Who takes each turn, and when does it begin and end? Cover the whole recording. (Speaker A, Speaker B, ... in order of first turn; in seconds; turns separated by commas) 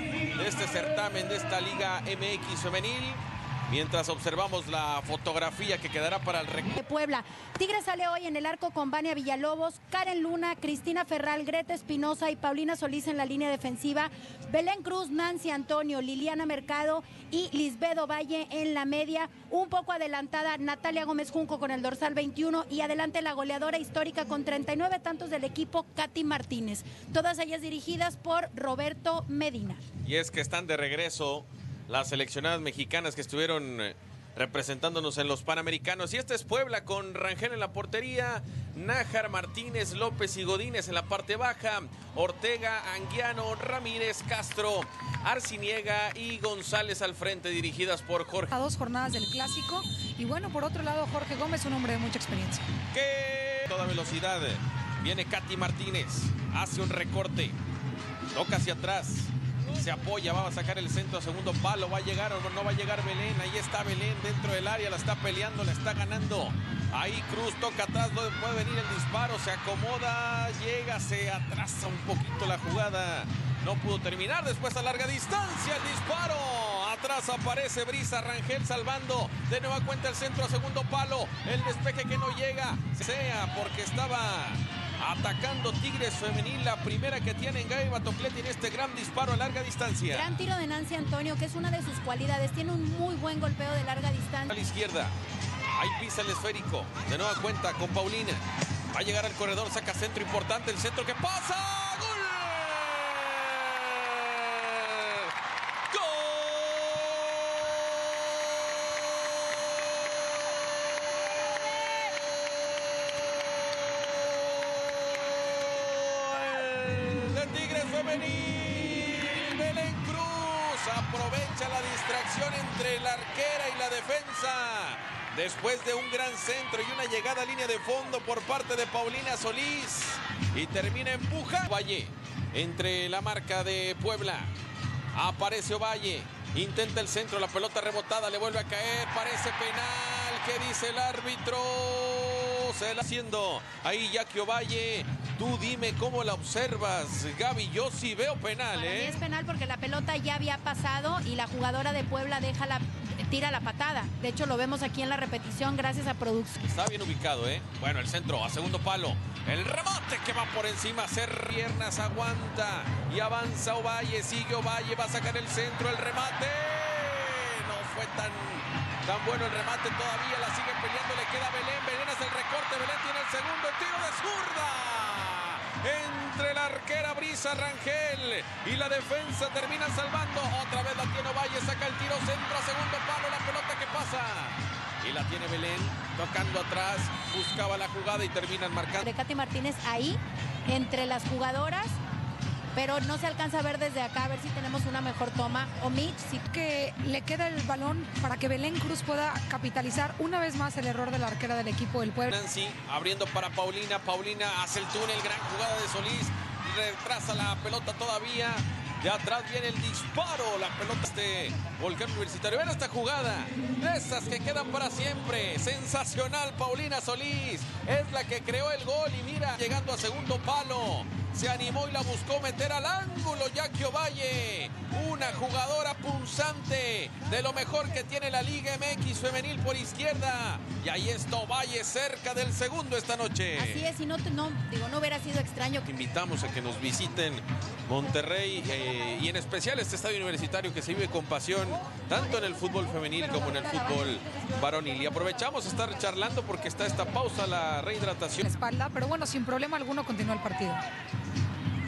Speaker A: 0.3-6.8, Speaker B: 6.8-29.9, Speaker A: 30.0-48.5, Speaker C: 48.5-52.7, Speaker A: 52.9-57.6, Speaker A: 58.3-90.3, Speaker B: 90.1-94.5, Speaker A: 94.5-95.2, Speaker A: 95.7-105.3, Speaker A: 105.9-109.9, Speaker A: 113.8-134.5, Speaker A: 135.1-149.2, Speaker B: 148.7-156.6, Speaker A: 156.6-189.1, Speaker B: 189.0-192.0, Speaker B: 192.8-196.5, Speaker C: 196.5-202.3, Speaker A: 202.3-233.9, Speaker B: 233.6-235.8, Speaker A: 235.8-248.5, Speaker C: 248.4-250.8